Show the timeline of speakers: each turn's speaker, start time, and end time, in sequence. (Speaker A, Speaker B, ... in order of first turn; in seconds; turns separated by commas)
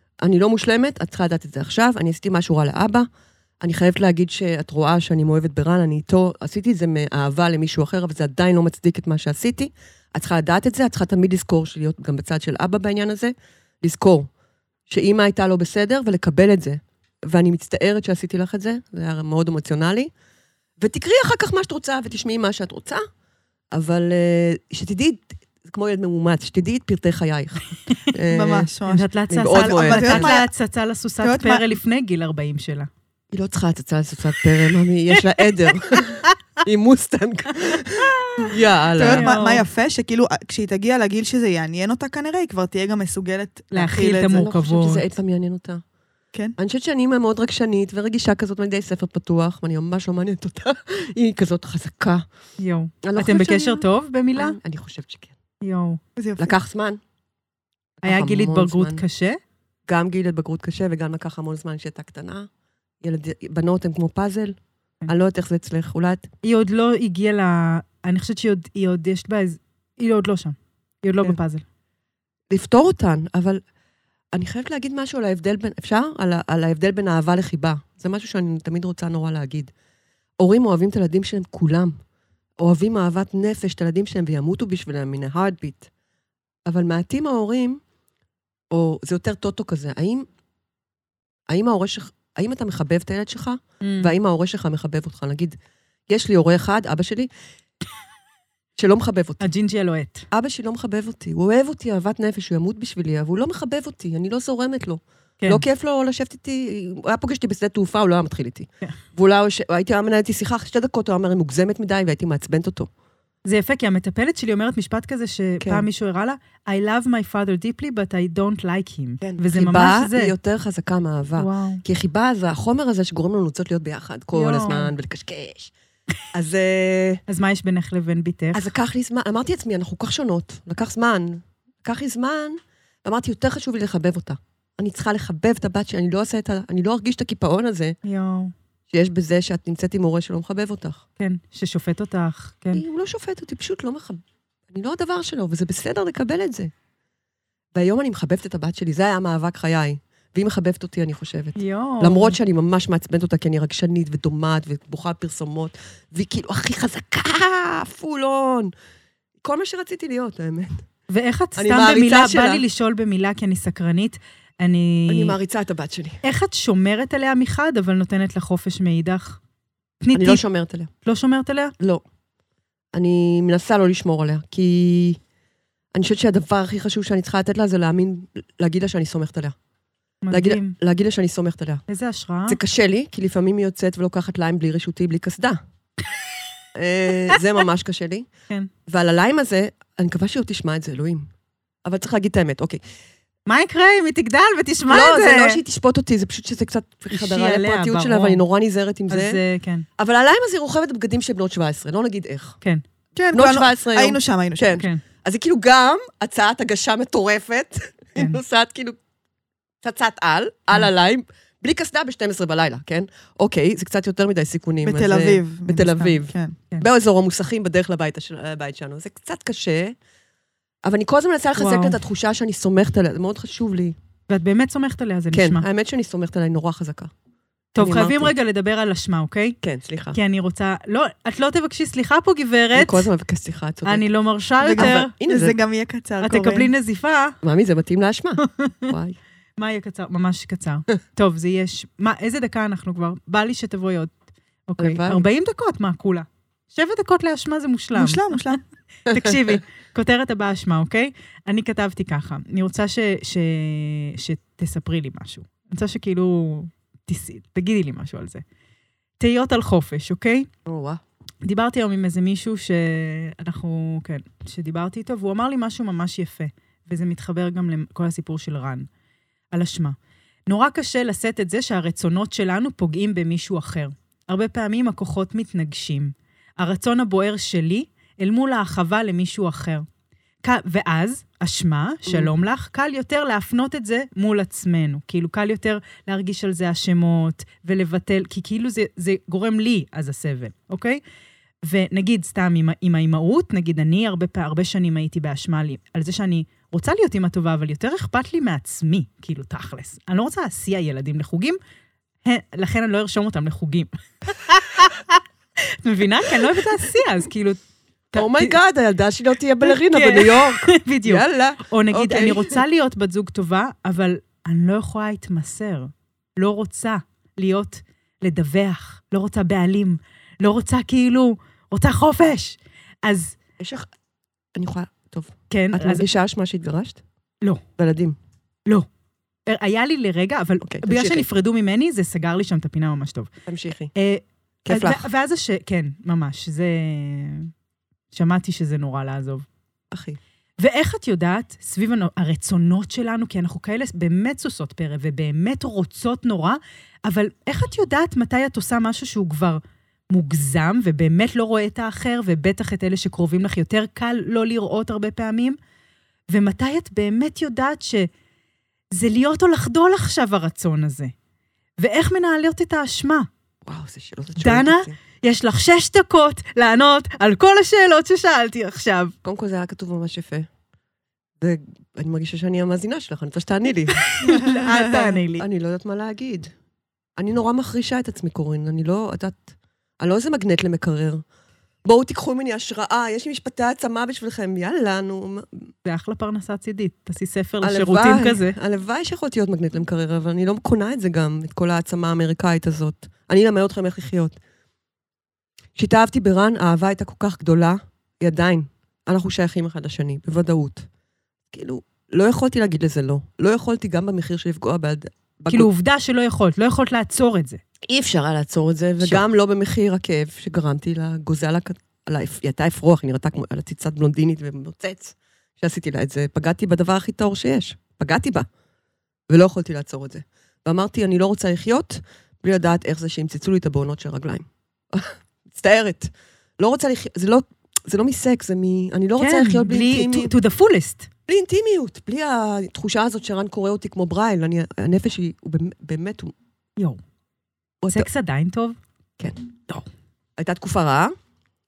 Speaker A: 0.2-3.1, Speaker A: 3.6-14.3, Speaker A: 14.9-20.1, Speaker A: 20.8-23.0, Speaker A: 23.7-28.7, Speaker B: 28.3-30.5, Speaker C: 28.9-32.9, Speaker A: 29.3-30.3, Speaker B: 31.2-31.8, Speaker A: 33.3-39.3, Speaker C: 38.1-39.6, Speaker B: 39.0-44.5, Speaker C: 43.7-45.1, Speaker A: 44.3-45.8, Speaker A: 46.6-52.2, Speaker C: 52.6-54.6, Speaker A: 53.0-53.8, Speaker A: 54.3-55.3, Speaker C: 55.6-56.0, Speaker B: 56.2-56.6, Speaker A: 56.4-57.0, Speaker A: 58.0-59.0, Speaker C: 58.0-59.4, Speaker A: 59.9-62.5, Speaker A: 63.0-64.5, Speaker A: 65.1-66.3, Speaker C: 66.4-71.6, Speaker A: 72.5-73.6, Speaker A: 74.3-79.7, Speaker A: 80.4-81.9, Speaker A: 82.6-85.9, Speaker A: 86.7-87.8, Speaker A: 88.7-90.3, Speaker A: 91.5-95.6, Speaker C: 93.8-94.1, Speaker A: 96.1-97.3, Speaker A: 98.8-99.4, Speaker C: 99.4-100.3, Speaker A: 100.3-112.9, Speaker C: 113.4-120.3, Speaker A: 119.2-125.7, Speaker C: 121.4-121.8, Speaker C: 124.3-124.9, Speaker A: 126.3-127.2, Speaker C: 127.3-128.7, Speaker A: 128.5-137.9, Speaker C: 138.0-138.5, Speaker A: 138.9-141.0, Speaker C: 141.2-142.8, Speaker A: 142.7-146.7, Speaker A: 147.7-158.7, Speaker C: 151.6-152.3, Speaker A: 159.4-160.8, Speaker C: 161.1-165.3, Speaker A: 161.6-162.6, Speaker A: 165.1-166.2, Speaker C: 166.2-169.4, Speaker C: 170.0-170.4, Speaker A: 170.1-170.9, Speaker C: 171.0-171.7, Speaker A: 172.9-175.2, Speaker A: 175.9-179.6, Speaker C: 180.2-180.8, Speaker A: 180.3-181.8, Speaker C: 181.9-182.6, Speaker A: 182.5-185.6, Speaker A: 186.7-188.3, Speaker A: 188.9-191.3, Speaker A: 191.8-192.8, Speaker C: 193.4-195.6, Speaker A: 194.9-199.4, Speaker C: 197.1-198.4, Speaker C: 199.1-199.8, Speaker A: 200.0-202.6, Speaker B: 203.2-204.8, Speaker A: 203.3-209.0, Speaker C: 208.2-208.4, Speaker A: 209.8-219.9, Speaker B: 214.8-216.6, Speaker A: 220.8-223.9, Speaker C: 221.6-222.0, Speaker C: 224.3-225.6, Speaker A: 225.3-227.1, Speaker C: 227.8-229.6, Speaker A: 227.8-228.3, Speaker A: 229.6-230.2, Speaker C: 230.1-233.1, Speaker A: 232.7-234.0, Speaker C: 233.8-235.1, Speaker B: 234.6-236.7, Speaker A: 234.8-235.6, Speaker C: 236.2-237.3, Speaker A: 237.4-239.2, Speaker C: 238.4-238.9, Speaker C: 239.6-244.1, Speaker C: 244.7-248.6, Speaker A: 244.8-245.2, Speaker B: 247.9-248.6, Speaker C: 249.1-258.4, Speaker A: 249.1-249.6, Speaker C: 259.2-260.5, Speaker A: 260.6-261.0, Speaker C: 261.4-268.9, Speaker C: 269.5-269.9, Speaker C: 270.5-279.9, Speaker C: 280.4-291.0, Speaker A: 282.1-282.3, Speaker C: 291.6-301.6, Speaker C: 302.2-305.2, Speaker C: 305.8-307.6, Speaker C: 308.1-308.5, Speaker A: 308.1-312.6, Speaker C: 309.6-323.3, Speaker A: 323.6-323.9, Speaker A: 324.5-327.0, Speaker C: 325.5-326.1, Speaker A: 327.8-328.2, Speaker C: 329.4-333.3, Speaker A: 330.6-331.2, Speaker A: 333.5-333.9, Speaker C: 333.9-337.5, Speaker A: 334.6-335.0, Speaker C: 338.1-339.4, Speaker A: 339.9-340.2, Speaker C: 340.6-355.6, Speaker C: 356.3-358.1, Speaker C: 358.9-361.1, Speaker C: 361.8-363.3, Speaker A: 363.6-364.9, Speaker C: 364.4-369.1, Speaker A: 369.2-370.5, Speaker A: 371.4-374.2, Speaker C: 374.0-375.4, Speaker B: 374.4-375.2, Speaker A: 375.4-376.5, Speaker A: 377.2-381.2, Speaker A: 381.8-385.6, Speaker C: 385.8-388.6, Speaker A: 387.6-394.4, Speaker A: 395.8-400.9, Speaker A: 401.5-405.7, Speaker C: 405.5-407.6, Speaker A: 407.9-418.5, Speaker A: 419.3-430.3, Speaker C: 429.2-431.1, Speaker A: 431.3-436.3, Speaker A: 437.8-438.1, Speaker C: 437.9-438.8, Speaker A: 440.4-441.1